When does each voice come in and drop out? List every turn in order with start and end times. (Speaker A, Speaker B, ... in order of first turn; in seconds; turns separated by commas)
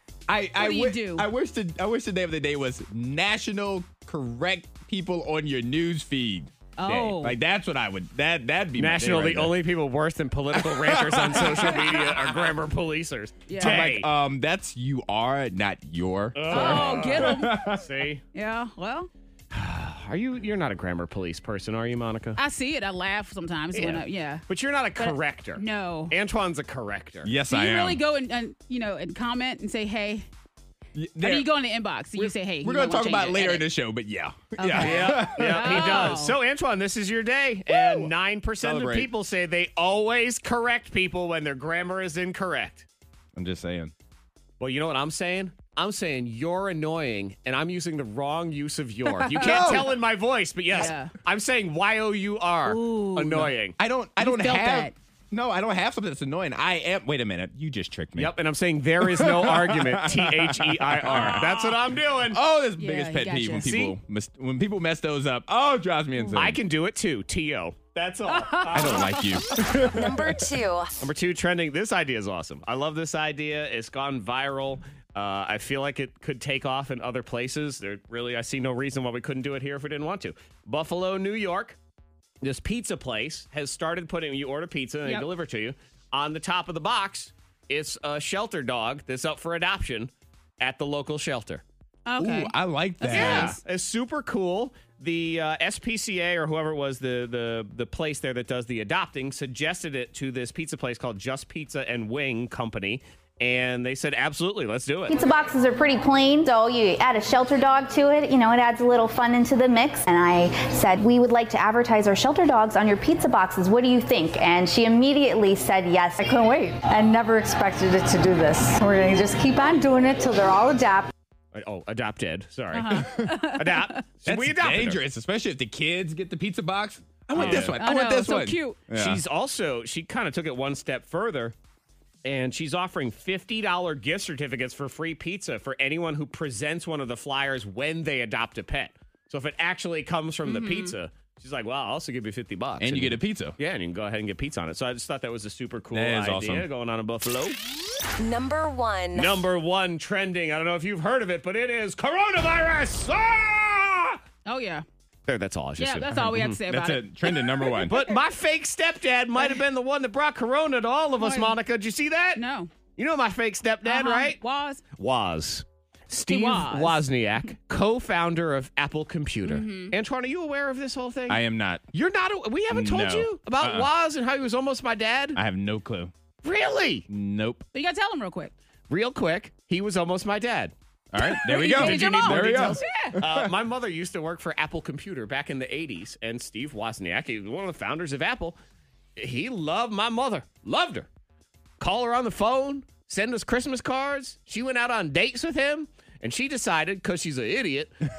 Speaker A: 0.3-9.6, Speaker B: 0.6-1.3, Speaker B: 6.8-7.4, Speaker C: 8.8-14.1, Speaker A: 10.5-12.4, Speaker B: 13.5-13.9, Speaker A: 13.6-17.9, Speaker C: 16.4-18.2, Speaker B: 16.5-17.7, Speaker B: 18.3-19.1, Speaker C: 19.5-22.4, Speaker B: 22.4-24.4, Speaker C: 23.7-27.3, Speaker B: 25.0-26.1, Speaker A: 27.2-28.0, Speaker B: 27.5-30.3, Speaker A: 30.9-31.5, Speaker B: 31.2-33.7, Speaker A: 32.1-36.2, Speaker B: 34.6-36.4, Speaker C: 34.8-42.9, Speaker A: 37.7-39.1, Speaker A: 43.4-43.9, Speaker C: 44.6-53.8, Speaker B: 49.1-49.9, Speaker A: 49.4-49.9, Speaker B: 50.7-51.1, Speaker B: 52.7-53.5, Speaker A: 53.8-58.4, Speaker B: 54.2-55.0, Speaker C: 58.2-62.4, Speaker A: 59.0-61.6, Speaker A: 62.3-66.6, Speaker B: 62.8-63.7, Speaker C: 63.6-64.0, Speaker C: 66.3-69.2, Speaker B: 68.3-69.3, Speaker A: 68.7-70.3, Speaker D: 69.9-70.9, Speaker C: 71.0-81.8, Speaker C: 82.4-91.6, Speaker B: 92.1-93.6, Speaker A: 92.2-93.6, Speaker C: 93.1-105.2, Speaker E: 105.1-121.1, Speaker C: 121.5-125.0, Speaker B: 122.7-124.0, Speaker A: 123.0-123.4, Speaker A: 124.2-129.2, Speaker C: 127.4-127.8, Speaker B: 127.4-128.8, Speaker C: 128.9-131.5, Speaker C: 132.2-147.6, Speaker B: 140.4-140.9, Speaker A: 142.8-143.6, Speaker A: 145.9-146.7, Speaker D: 148.2-149.4, Speaker C: 149.1-154.2, Speaker B: 154.5-154.8, Speaker C: 155.3-156.6, Speaker B: 155.8-157.9, Speaker A: 156.6-158.0, Speaker C: 157.8-162.4, Speaker B: 161.2-161.6, Speaker B: 162.4-162.7, Speaker C: 163.0-164.4, Speaker B: 163.8-164.8, Speaker C: 165.0-171.4, Speaker B: 166.3-167.0, Speaker B: 169.4-169.9, Speaker A: 171.3-171.8, Speaker C: 171.9-175.4, Speaker A: 172.7-173.9, Speaker A: 175.3-176.1, Speaker C: 176.4-177.1, Speaker A: 177.1-177.7, Speaker B: 177.7-178.5, Speaker C: 178.9-180.7, Speaker A: 181.1-183.5, Speaker B: 181.2-183.2, Speaker C: 181.5-188.6, Speaker C: 189.2-191.1, Speaker C: 191.8-198.0